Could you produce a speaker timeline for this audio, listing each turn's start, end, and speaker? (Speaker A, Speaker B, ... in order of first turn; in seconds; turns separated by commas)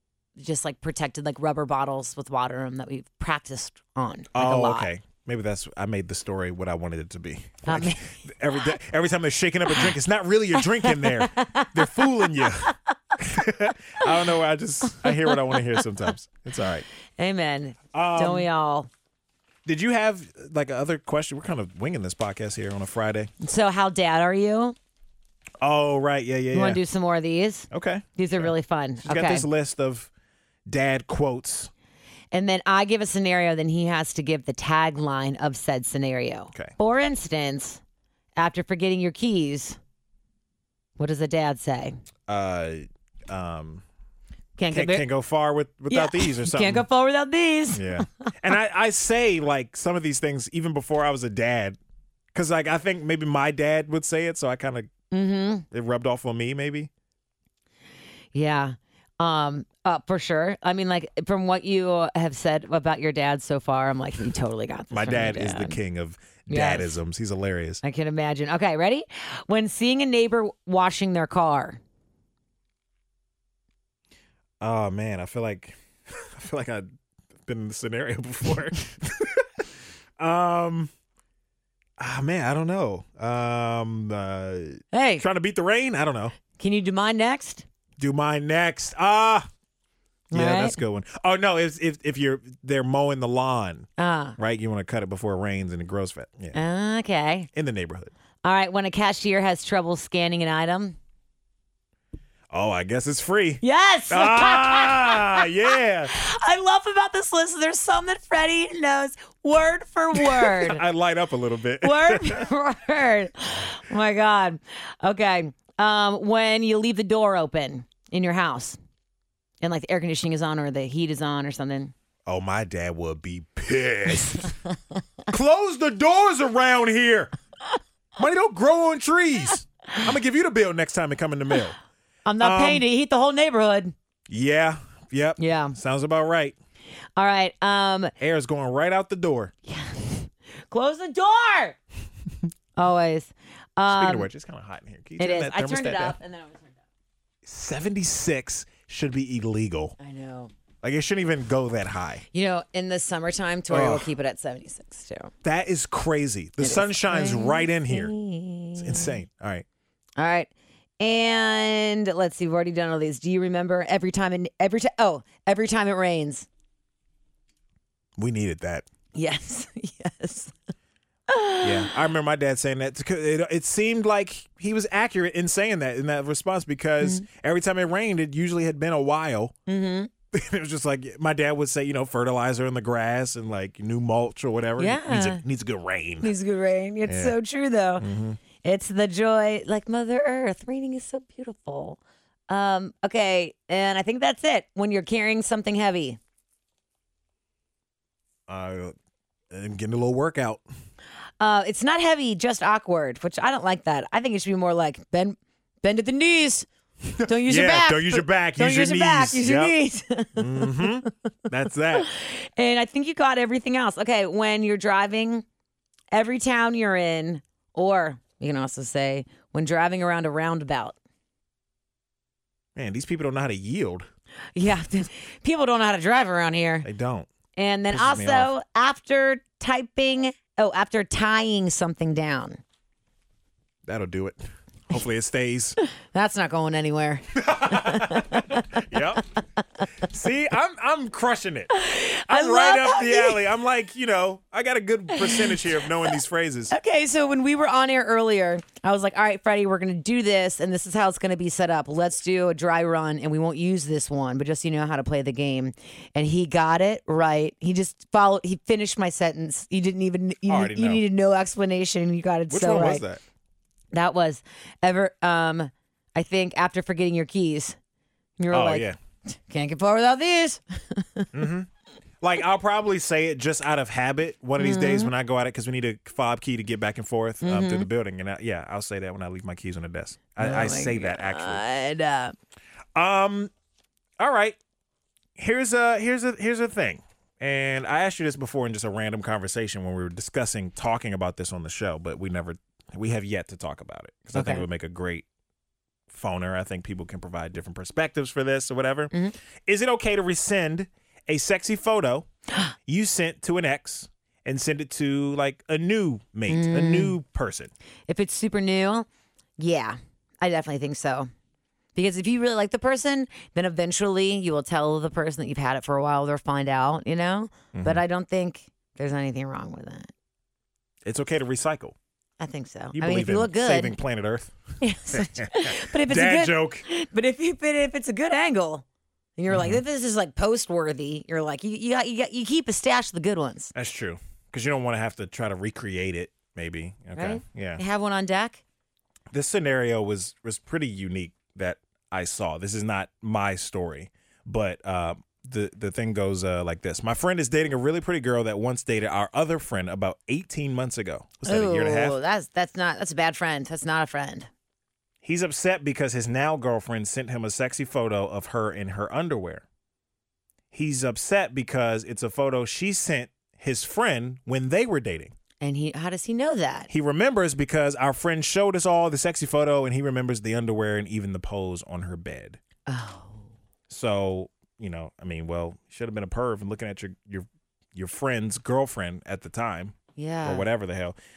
Speaker A: 0.4-4.9, Speaker B: 4.3-16.8, Speaker A: 7.7-8.1, Speaker A: 10.6-12.7, Speaker A: 14.8-15.8, Speaker A: 17.2-18.9, Speaker B: 17.9-18.5, Speaker B: 19.6-23.3, Speaker A: 23.4-24.8, Speaker B: 25.6-26.8, Speaker A: 26.5-29.4, Speaker B: 27.7-28.5, Speaker B: 29.0-30.1, Speaker B: 30.6-31.7, Speaker A: 32.3-37.8, Speaker A: 38.4-39.8, Speaker A: 41.0-42.0, Speaker B: 42.3-43.8, Speaker A: 44.6-45.0, Speaker B: 44.7-46.8, Speaker A: 45.9-48.3, Speaker B: 47.7-51.8, Speaker B: 52.3-54.9, Speaker A: 55.1-55.6, Speaker B: 55.7-56.9, Speaker A: 58.3-65.8, Speaker B: 64.9-67.8, Speaker A: 66.5-66.9, Speaker A: 67.8-71.8, Speaker B: 74.6-76.9, Speaker B: 77.5-79.7, Speaker B: 80.2-80.9, Speaker B: 82.0-86.4, Speaker A: 84.9-85.2, Speaker A: 86.5-87.7, Speaker B: 88.0-89.5, Speaker A: 90.3-90.8, Speaker B: 90.3-96.6, Speaker A: 94.0-94.4, Speaker A: 96.5-97.5, Speaker B: 97.5-98.1, Speaker A: 98.4-101.0, Speaker B: 102.5-106.1, Speaker A: 103.6-110.8, Speaker B: 110.1-112.5, Speaker A: 111.8-118.8, Speaker A: 119.6-121.9, Speaker B: 122.2-124.5, Speaker A: 124.2-124.7, Speaker B: 125.3-127.3, Speaker B: 128.2-131.8, Speaker A: 132.2-133.9, Speaker B: 132.4-132.8, Speaker B: 134.3-136.6, Speaker A: 135.4-135.8, Speaker A: 137.2-138.1, Speaker B: 138.2-139.5, Speaker A: 139.7-141.8, Speaker A: 142.8-144.3, Speaker B: 143.9-146.2, Speaker A: 145.2-146.8, Speaker B: 147.4-149.9, Speaker A: 150.0-150.5, Speaker B: 150.8-152.2, Speaker A: 152.3-155.3, Speaker B: 153.7-154.1, Speaker B: 155.4-158.1, Speaker A: 156.6-159.2, Speaker B: 158.8-159.6, Speaker A: 160.2-166.5, Speaker B: 168.2-168.8, Speaker A: 169.1-170.5, Speaker A: 171.3-171.9, Speaker B: 171.6-179.5, Speaker A: 179.7-180.1, Speaker B: 180.3-186.3, Speaker A: 184.8-185.4, Speaker A: 186.2-188.1, Speaker B: 187.1-187.3, Speaker B: 188.0-188.4, Speaker A: 188.6-196.2, Speaker B: 198.5-198.9, Speaker B: 199.5-200.6, Speaker A: 201.4-206.7, Speaker B: 207.1-209.7, Speaker A: 207.2-211.1, Speaker B: 210.3-212.1, Speaker A: 211.9-215.4, Speaker A: 216.1-220.9, Speaker B: 222.8-224.1, Speaker A: 224.5-226.9, Speaker B: 226.8-227.3, Speaker A: 227.6-232.6, Speaker B: 227.9-228.5, Speaker B: 233.8-235.8, Speaker A: 235.8-238.8, Speaker B: 237.3-239.2, Speaker B: 240.0-241.7, Speaker A: 241.7-243.4, Speaker B: 242.3-246.7, Speaker A: 245.1-245.6, Speaker A: 246.7-263.0, Speaker B: 260.5-261.0, Speaker B: 262.5-263.2, Speaker A: 263.9-267.8, Speaker A: 268.4-271.3, Speaker B: 268.5-269.0, Speaker B: 271.3-271.7, Speaker B: 272.2-281.6, Speaker A: 274.6-275.1, Speaker A: 277.4-277.9, Speaker A: 280.4-282.3, Speaker B: 282.9-283.5, Speaker B: 284.2-284.6, Speaker B: 285.4-295.2, Speaker A: 294.3-294.6, Speaker B: 296.1-299.1, Speaker B: 299.6-302.3, Speaker B: 302.9-307.7, Speaker A: 306.5-307.1, Speaker A: 308.1-309.1, Speaker A: 309.6-311.3, Speaker A: 311.9-320.1, Speaker B: 317.7-318.0, Speaker B: 321.0-321.9, Speaker A: 322.4-324.0, Speaker B: 322.9-324.6, Speaker A: 324.8-328.8, Speaker B: 325.1-326.8, Speaker A: 329.4-333.7, Speaker B: 329.5-329.8, Speaker B: 333.7-337.8, Speaker A: 337.1-338.6, Speaker B: 339.3-352.1, Speaker A: 351.4-354.5, Speaker B: 355.2-359.6, Speaker B: 360.7-365.3, Speaker A: 365.6-366.9, Speaker B: 366.9-372.6, Speaker A: 372.9-373.4, Speaker B: 373.9-381.2, Speaker A: 380.1-380.6